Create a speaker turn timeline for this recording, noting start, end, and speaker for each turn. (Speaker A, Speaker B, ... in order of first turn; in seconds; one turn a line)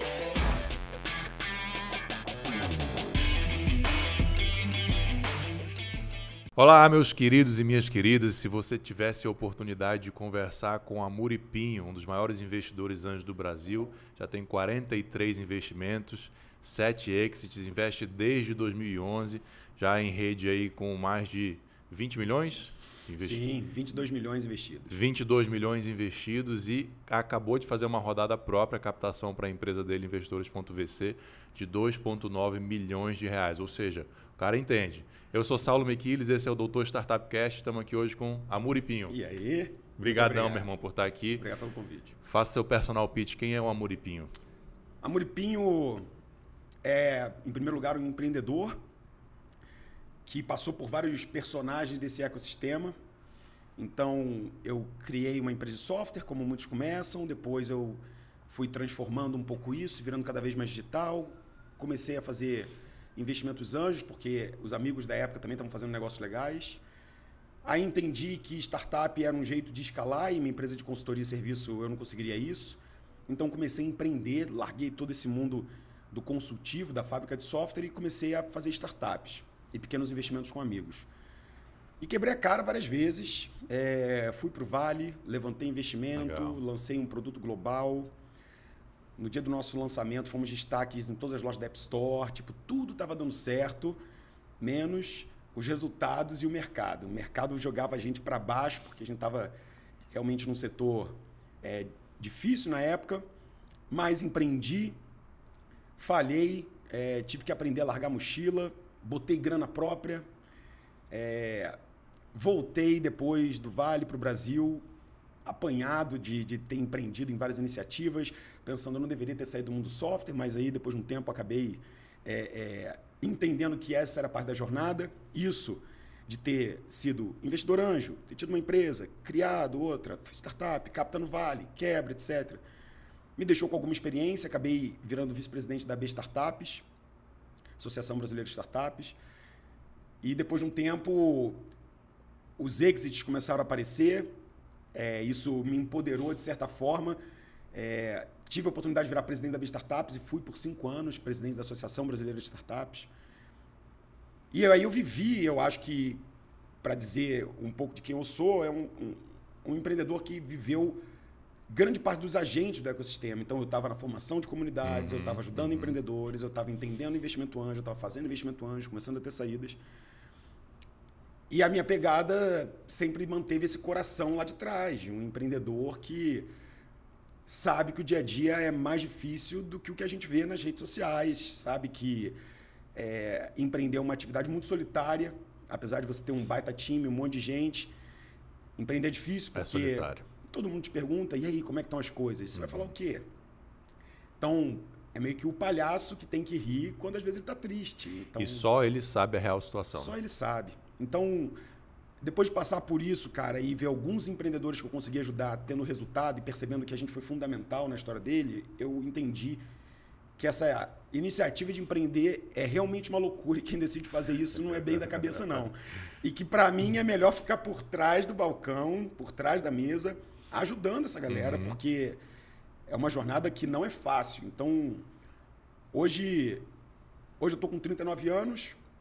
Speaker A: 6.5-23.4
Speaker B: 23.2-24.9
Speaker A: 24.9-39.2
Speaker B: 39.1-40.7
Speaker A: 40.0-41.4
Speaker B: 41.4-42.2
Speaker A: 42.2-44.3
Speaker B: 45.0-46.1
Speaker B: 46.8-48.8
Speaker B: 50.3-53.0
Speaker B: 53.8-66.8
Speaker B: 67.6-81.1
Speaker B: 82.0-88.1
Speaker A: 86.2-86.6
Speaker B: 89.2-94.0
Speaker B: 94.6-99.5
Speaker B: 100.1-103.2
Speaker B: 103.9-105.0
Speaker B: 106.0-110.2
Speaker B: 111.1-111.8
Speaker B: 112.3-114.8
Speaker B: 115.5-132.6
Speaker B: 133.4-136.8
Speaker B: 137.8-139.2
Speaker B: 140.2-141.7
Speaker B: 142.6-144.3
Speaker B: 144.9-147.2
Speaker B: 147.7-153.1
Speaker B: 154.5-156.2
Speaker B: 156.8-161.0
Speaker B: 161.7-169.8
Speaker A: 164.8-165.9
Speaker B: 171.5-176.5
Speaker B: 177.5-182.4
Speaker B: 182.9-187.9
Speaker B: 188.8-193.3
Speaker A: 189.6-190.2
Speaker A: 192.6-192.9
Speaker B: 194.4-198.7
Speaker A: 198.4-200.2
Speaker B: 200.0-201.6
Speaker B: 202.2-209.6
Speaker B: 210.4-222.2
Speaker A: 214.7-215.6
Speaker A: 221.3-221.8
Speaker B: 222.9-225.1
Speaker B: 225.9-226.7
Speaker B: 227.4-228.8